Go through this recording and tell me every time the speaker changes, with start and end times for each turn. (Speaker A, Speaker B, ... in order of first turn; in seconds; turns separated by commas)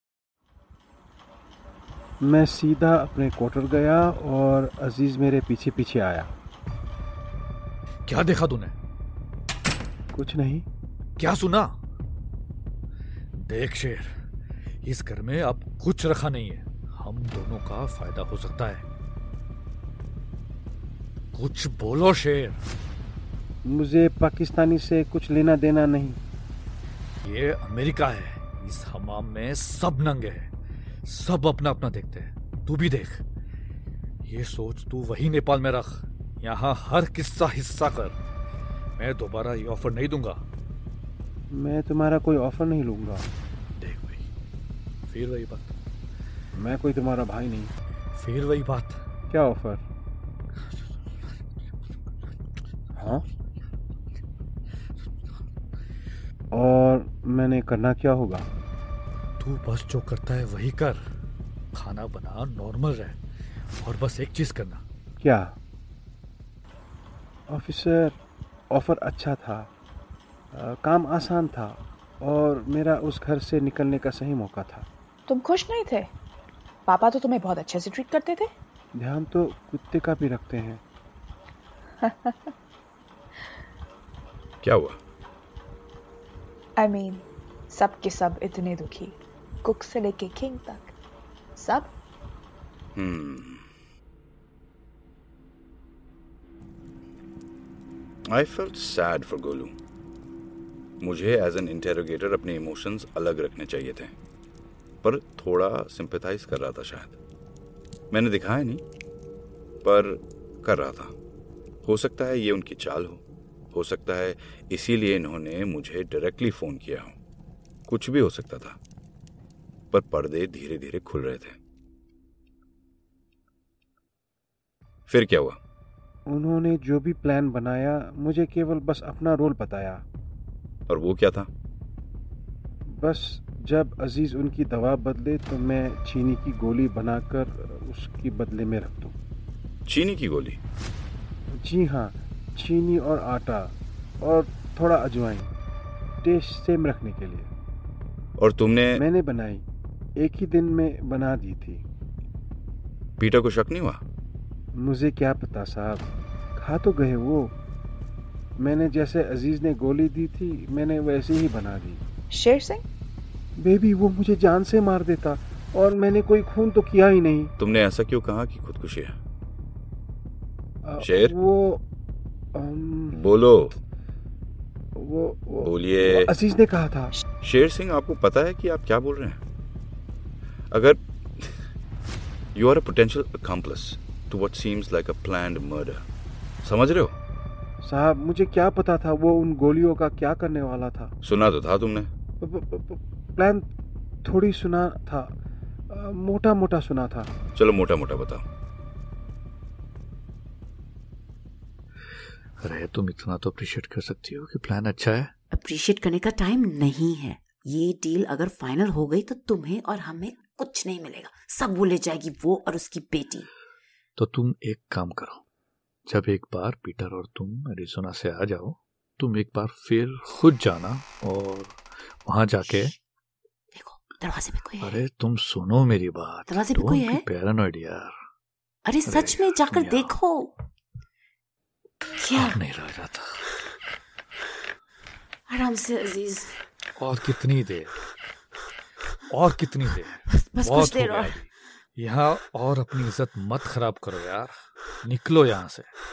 Speaker A: 2.2-6.3, Speaker B: 8.1-8.7, Speaker A: 10.1-10.7, Speaker B: 11.2-11.8, Speaker B: 13.3-14.1, Speaker B: 14.8-18.8, Speaker B: 21.3-22.6, Speaker A: 23.6-26.2, Speaker B: 27.2-30.5, Speaker B: 31.0-33.2, Speaker B: 34.2-38.2, Speaker B: 39.0-40.4, Speaker A: 41.5-43.3, Speaker B: 43.8-44.2, Speaker B: 45.1-45.7, Speaker A: 46.5-47.7, Speaker B: 48.1-49.0, Speaker A: 49.3-49.8, Speaker A: 53.0-53.2, Speaker A: 56.5-58.5, Speaker B: 59.4-61.0, Speaker B: 61.7-63.2, Speaker B: 63.8-64.8, Speaker A: 65.2-65.5, Speaker A: 67.5-68.2, Speaker A: 68.7-69.7, Speaker A: 70.5-74.9, Speaker C: 75.3-76.1, Speaker C: 76.8-78.5, Speaker A: 78.9-80.8, Speaker C: 82.0-82.5, Speaker D: 84.6-85.0, Speaker C: 86.8-90.9, Speaker C: 91.5-91.9, Speaker D: 92.9-93.6, Speaker D: 98.3-99.7, Speaker D: 101.0-104.1, Speaker D: 105.0-107.2, Speaker D: 108.1-108.8, Speaker D: 109.8-111.1, Speaker D: 111.8-117.1, Speaker D: 117.9-118.8, Speaker D: 119.9-121.6, Speaker D: 125.1-125.6, Speaker A: 126.3-130.0, Speaker D: 130.9-131.5, Speaker A: 132.9-139.1, Speaker D: 139.9-140.6, Speaker A: 141.6-145.5, Speaker A: 146.2-147.5, Speaker D: 148.4-149.0, Speaker A: 148.9-149.6, Speaker A: 150.2-151.8, Speaker D: 153.2-154.0, Speaker A: 154.8-157.5, Speaker A: 158.6-162.0, Speaker C: 162.3-162.8, Speaker A: 163.6-167.5, Speaker D: 167.6-169.1, Speaker A: 170.8-171.8, Speaker D: 171.0-171.3, Speaker A: 172.5-173.2, Speaker D: 173.1-173.8, Speaker A: 174.9-177.1, Speaker D: 175.6-176.3, Speaker D: 177.4-179.4, Speaker D: 180.7-181.6, Speaker D: 182.5-186.0, Speaker D: 186.6-187.2, Speaker A: 187.8-191.1, Speaker D: 191.2-192.1, Speaker A: 192.4-193.7, Speaker A: 194.2-195.3, Speaker A: 195.9-197.3, Speaker D: 197.5-198.4, Speaker B: 202.6-205.3, Speaker E: 205.6-207.1, Speaker E: 207.9-209.5, Speaker E: 210.3-213.2, Speaker B: 214.2-215.4, Speaker B: 216.1-222.9, Speaker E: 224.2-224.8, Speaker B: 224.8-228.1, Speaker E: 228.9-230.4, Speaker B: 229.0-230.2, Speaker B: 232.3-233.2, Speaker E: 235.5-236.2, Speaker B: 237.0-237.9, Speaker B: 239.3-245.9, Speaker E: 240.6-241.2